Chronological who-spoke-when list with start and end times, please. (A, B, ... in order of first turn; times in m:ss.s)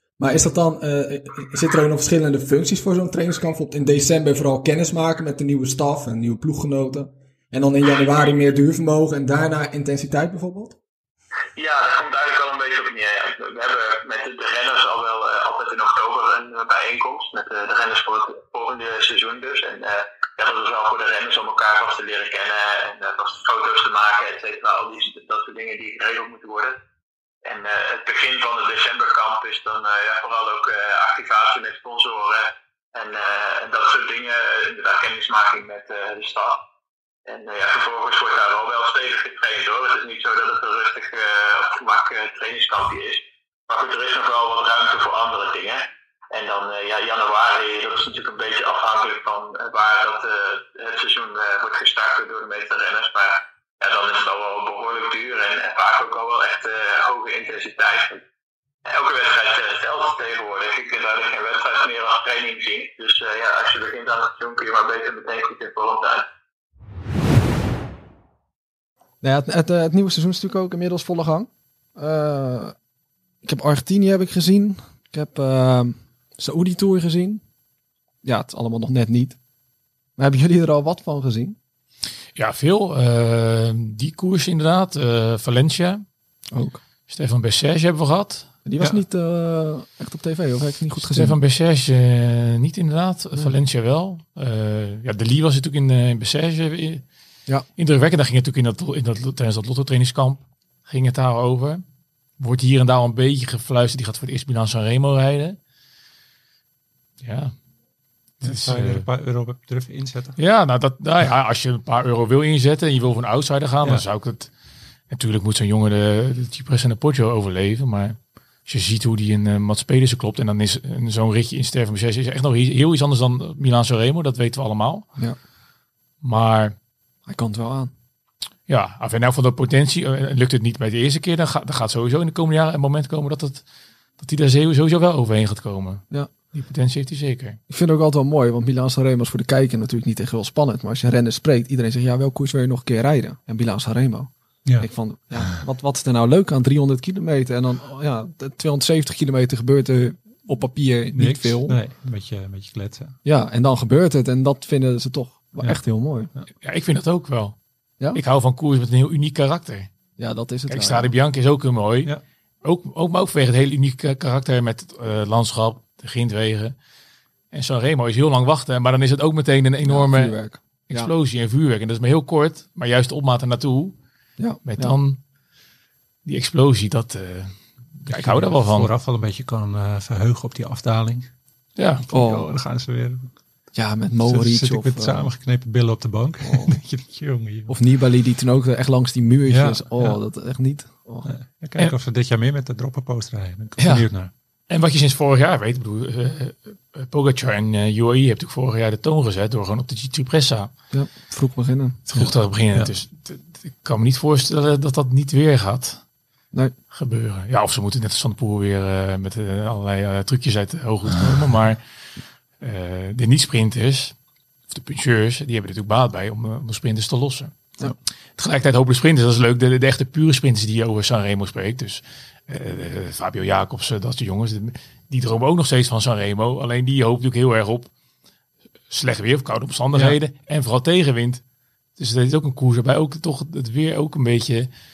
0:00.2-0:10.8 A
0:11.6-0:26.8 B
0:27.4-0:36.6 B
0:37.3-0:58.2 B
0:58.8-1:06.3 B
1:09.2-1:12.8 A
1:13.4-1:17.4 A
1:18.2-1:19.4 A
1:20.2-1:21.6 A
1:22.4-1:26.0 C
1:26.5-1:26.8 A
1:27.1-1:28.5 C
1:28.6-1:31.4 A
1:31.0-1:37.0 C
1:37.8-1:41.8 C
1:42.4-1:45.6 C
1:47.2-1:47.6 C
1:48.4-1:50.4 D
1:48.4-1:49.0 C
1:50.4-1:54.5 C
1:55.1-2:05.1 C
2:06.2-2:06.8 C
2:07.3-2:07.9 A
2:08.7-2:13.6 C
2:14.2-2:17.6 C
2:17.7-2:31.8 A
2:31.2-2:33.2 D
2:33.2-2:36.3 A
2:36.6-2:37.6 C
2:38.1-2:39.9 C
2:40.2-2:41.1 A
2:40.7-2:42.1 C
2:42.6-2:46.8 C
2:47.5-2:50.4 C
2:49.8-2:51.1 A
2:50.9-2:54.0 C
2:54.4-2:55.0 A
2:54.6-2:55.2 C
2:56.2-2:58.9 C
2:58.1-3:01.3 D
3:01.8-3:02.0 C
3:02.1-3:03.3 D
3:02.1-3:02.5 A
3:03.7-3:05.3 A
3:04.2-3:07.8 D
3:06.4-3:06.8 A
3:07.7-3:11.3 A
3:09.5-3:10.2 D
3:11.2-3:14.3 D
3:13.8-3:14.1 C
3:14.7-3:20.7 C
3:20.9-3:22.3 A
3:22.1-3:26.0 C
3:26.9-3:31.8 C
3:32.6-3:34.2 C
3:34.7-3:37.6 C
3:38.4-3:47.9 C
3:48.9-3:51.4 C
3:52.0-3:54.7 C